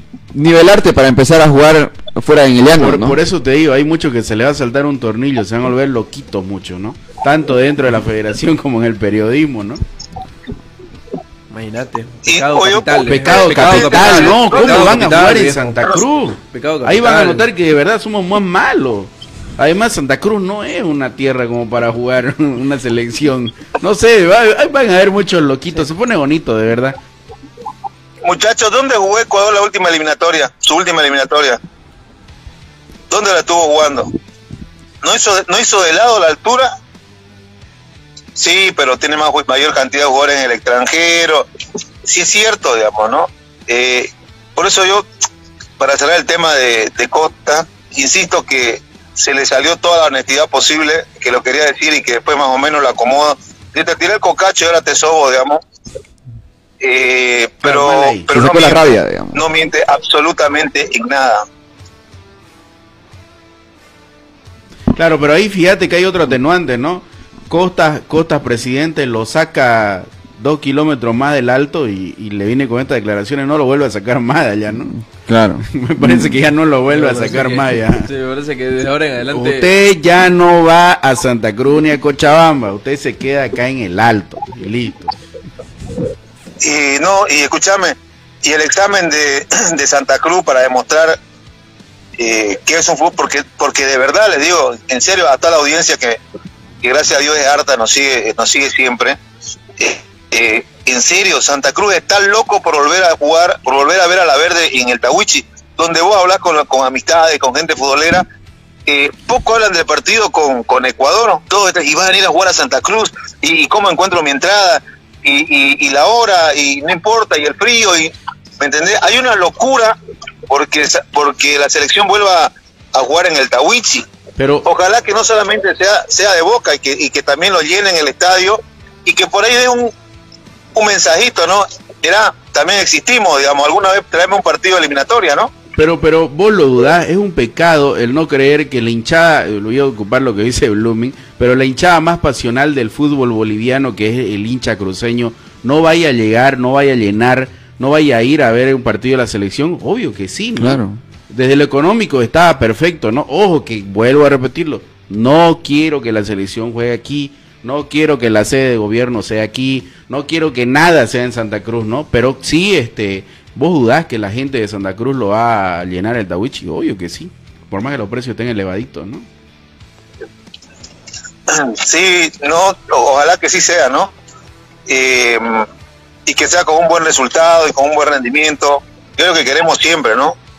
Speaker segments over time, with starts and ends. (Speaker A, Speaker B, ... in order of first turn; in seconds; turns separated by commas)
Speaker A: 0.3-3.2, Speaker B: 2.8-9.8, Speaker C: 11.5-17.5, Speaker D: 12.3-15.1, Speaker B: 13.1-27.0, Speaker D: 28.2-31.6, Speaker D: 33.1-34.1, Speaker D: 35.0-36.7, Speaker D: 38.4-41.5, Speaker D: 42.0-45.0, Speaker D: 45.8-55.6, Speaker D: 56.8-61.4, Speaker B: 57.6-58.3, Speaker A: 58.3-59.4, Speaker B: 64.9-74.9, Speaker A: 74.8-76.3, Speaker B: 75.6-78.1, Speaker C: 76.9-79.7, Speaker B: 79.2-85.1, Speaker D: 86.6-91.2, Speaker D: 92.2-96.2, Speaker D: 96.8-99.2, Speaker D: 99.8-108.2, Speaker D: 108.8-119.9, Speaker D: 120.5-124.0, Speaker B: 124.4-124.7, Speaker D: 124.6-129.9, Speaker D: 130.7-135.5, Speaker B: 135.8-169.3, Speaker A: 150.6-151.0, Speaker D: 171.5-174.1, Speaker D: 174.9-175.7, Speaker D: 176.2-180.3